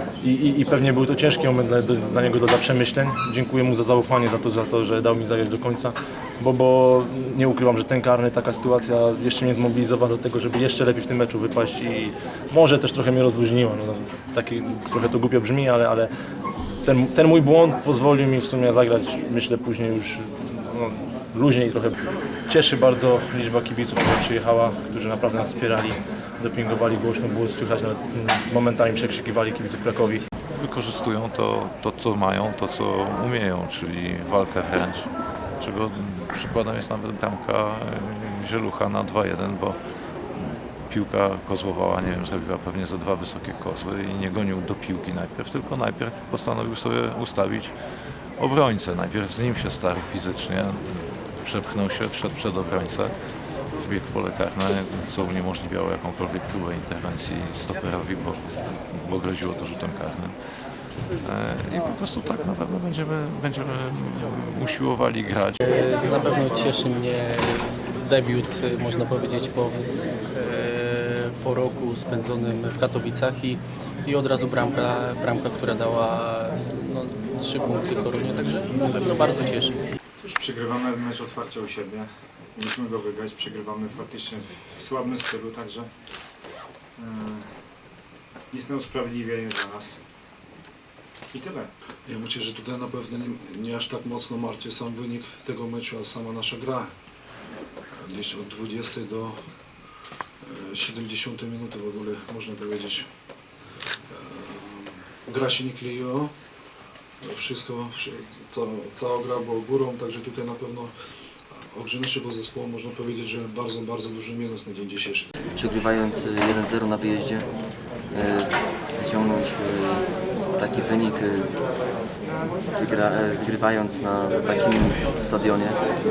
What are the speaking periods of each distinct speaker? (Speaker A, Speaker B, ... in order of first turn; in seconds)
Speaker A: 0.2-16.1, 16.8-22.0, 22.5-30.2
Speaker B: 30.4-65.6
Speaker C: 65.6-79.8
Speaker D: 80.2-86.3, 87.0-87.9, 88.5-90.1, 91.3-91.7
Speaker E: 92.0-96.8, 98.0-99.6, 100.5-103.0, 104.4-106.3, 107.2-110.9, 111.6-115.3
Speaker F: 115.5-117.5, 118.1-121.5, 122.7-125.8